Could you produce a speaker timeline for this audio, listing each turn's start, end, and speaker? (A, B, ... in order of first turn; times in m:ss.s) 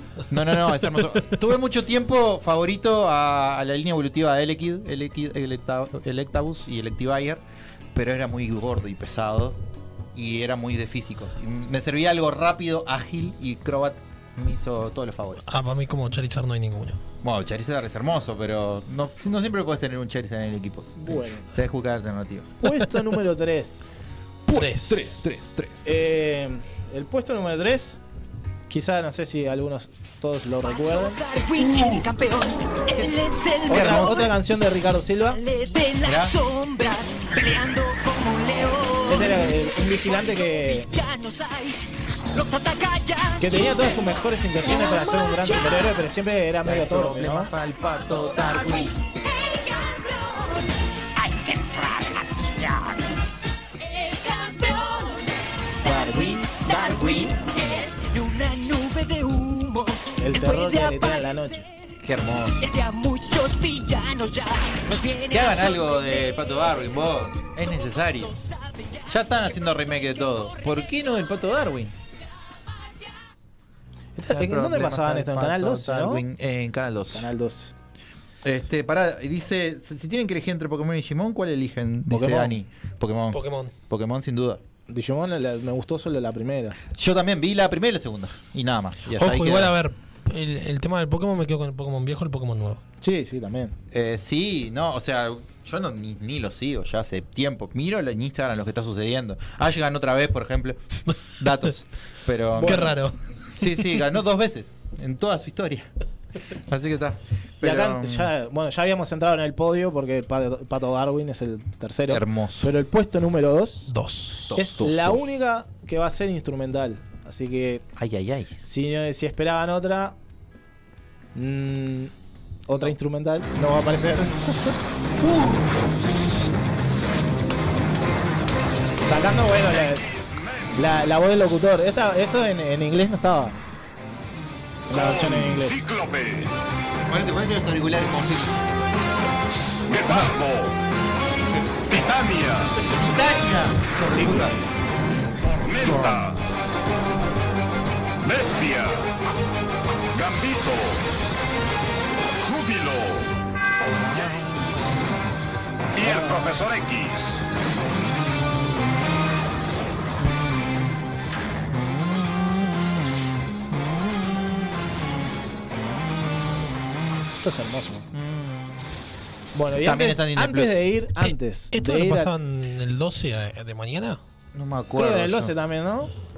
0:00.3-0:07.4 A
0:07.9-0:09.6 A
0:10.1-0:15.5 A
0:15.5-0:17.0 B
0:17.2-0:22.6 A
0:21.0-0:21.5 C
0:22.6-0:23.9 C
0:24.4-0:26.1 A
0:24.5-0:25.2 B
0:25.8-0:28.0 C
0:28.7-0:31.2 C
0:30.7-0:34.3 D
0:31.6-0:32.0 A
0:33.6-0:34.3 A
0:33.7-0:35.4 C
0:35.3-0:41.8 D
0:36.0-0:36.3 A
0:39.0-0:40.9 C
0:42.3-0:46.0 D
0:43.4-0:47.5 C
0:46.6-0:48.9 A
0:48.1-0:50.6 D
0:51.2-0:53.0 D
0:53.8-0:55.2 D
0:55.8-0:57.4 C
0:55.8-1:01.6 D
0:56.8-0:57.3 A
1:00.2-1:01.6 C
1:02.0-1:02.6 A
1:02.6-1:06.0 D
1:05.3-1:08.3 A
1:08.2-1:10.9 D
1:09.1-1:12.0 A
1:14.2-1:16.2 C
1:14.3-1:17.3 A
1:17.1-1:17.7 C
1:18.4-1:24.6 A
1:22.1-1:22.6 C
1:23.3-1:23.7 B
1:24.9-1:26.8 C
1:26.9-1:29.7 A
1:29.1-1:32.8 B
1:33.0-1:33.7 C
1:33.9-1:40.8 A
1:41.4-1:42.9 A
1:42.6-1:43.0 C
1:42.6-1:43.2 B
1:43.6-1:45.9 A
1:46.7-1:48.3 A
1:47.6-1:53.9 C
1:52.1-1:52.7 A
1:53.9-1:54.5 B
1:54.4-1:55.2 A
1:54.5-1:57.8 C
1:58.0-1:58.6 A
1:58.6-2:00.2 C
2:01.3-2:02.1 C
2:02.7-2:04.7 C
2:05.2-2:05.6 A
2:09.0-2:10.0 C
2:10.7-2:13.6 C
2:14.9-2:15.8 C
2:15.0-2:16.4 E
2:17.1-2:18.6 A
2:19.9-2:20.7 E
2:21.9-2:22.7 E
2:22.9-2:24.6 A
2:24.0-2:24.5 C
2:25.6-2:26.2 A
2:25.6-2:26.4 E
2:28.2-2:29.0 E
2:30.1-2:31.0 E
2:32.5-2:33.2 E
2:34.1-2:34.4 A
2:36.0-2:37.2 E
2:36.0-2:36.4 A
2:38.1-2:39.1 A
2:40.2-2:41.0 A
2:41.6-2:47.2 A
2:47.4-2:48.1 C
2:48.1-2:48.9 A
2:49.5-2:52.3 C
2:49.7-2:50.8 A
2:51.2-2:54.2 B
2:54.5-2:55.5 A
2:55.0-2:56.1 C